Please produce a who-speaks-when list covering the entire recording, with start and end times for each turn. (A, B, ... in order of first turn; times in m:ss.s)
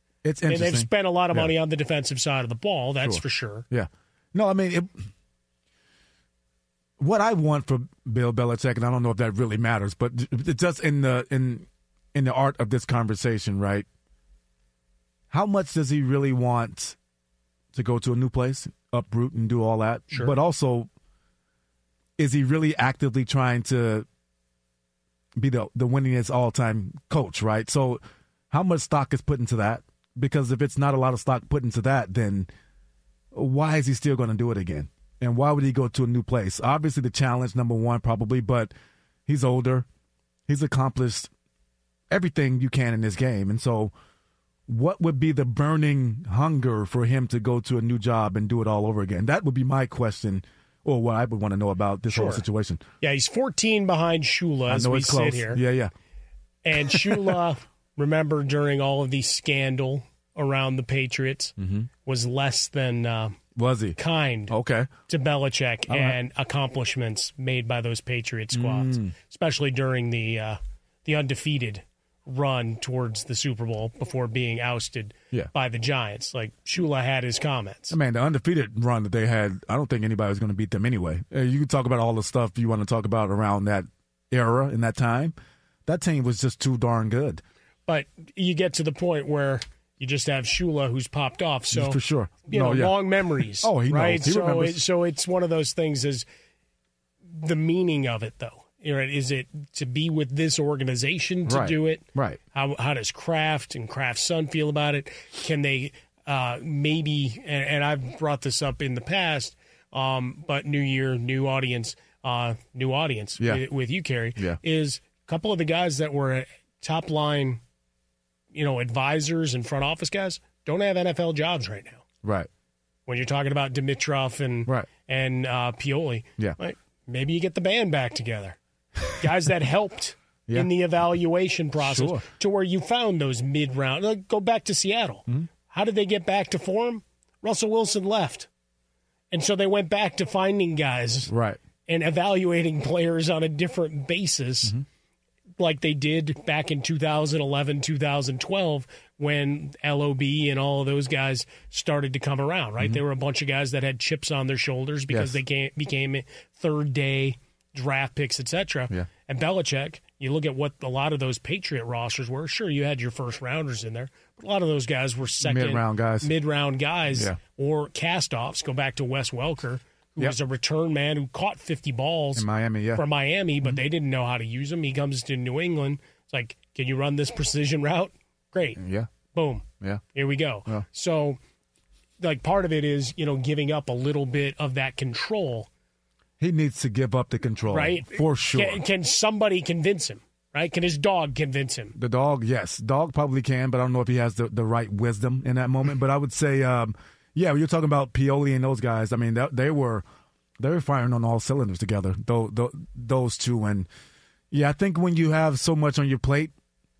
0:00.2-0:01.5 A
0:00.5-0:03.6 B
0:03.0-0:05.0 A
0:07.0-0:13.9 A
0:15.3-0:17.0 A
0:17.7-0:20.9 A
0:20.1-0:20.4 B
0:22.2-0:24.1 A
0:25.4-0:32.5 A
0:33.3-0:38.7 A
0:39.3-0:39.8 A
0:40.5-0:41.3 A
0:42.1-0:43.9 A
0:44.7-0:52.8 A
0:52.1-0:52.4 B
0:53.0-0:55.6 B
0:54.7-0:55.9 A
0:56.6-1:03.4 B
0:56.9-0:57.4 A
1:01.6-1:01.9 A
1:03.6-1:04.0 A
1:04.0-1:04.5 B
1:04.5-1:04.9 A
1:05.1-1:18.0 B
1:05.9-1:06.2 A
1:08.5-1:09.1 A
1:17.9-1:25.3 A
1:25.8-1:27.4 A
1:27.9-1:36.2 B
1:31.7-1:33.0 A
1:33.6-1:34.8 A
1:37.3-1:57.6 B
1:41.5-1:42.4 A
1:53.4-1:53.6 A
1:58.5-2:02.0 B
2:02.2-2:02.5 A
2:03.1-2:08.6 B
2:09.2-2:18.5 B
2:11.8-2:12.2 A
2:19.3-2:21.3 B
2:21.3-2:21.6 A
2:21.9-2:24.7 B
2:25.6-2:58.8 B
2:35.1-2:35.4 A
2:45.4-2:46.3 A
2:47.1-2:47.4 A
2:52.4-2:53.0 A
2:58.8-2:59.1 A
2:59.3-3:01.4 B
3:02.2-3:05.7 B
3:06.4-3:08.8 A
3:07.7-3:12.0 B
3:11.9-3:20.0 A
3:20.6-3:23.9 A
3:24.5-3:26.5 A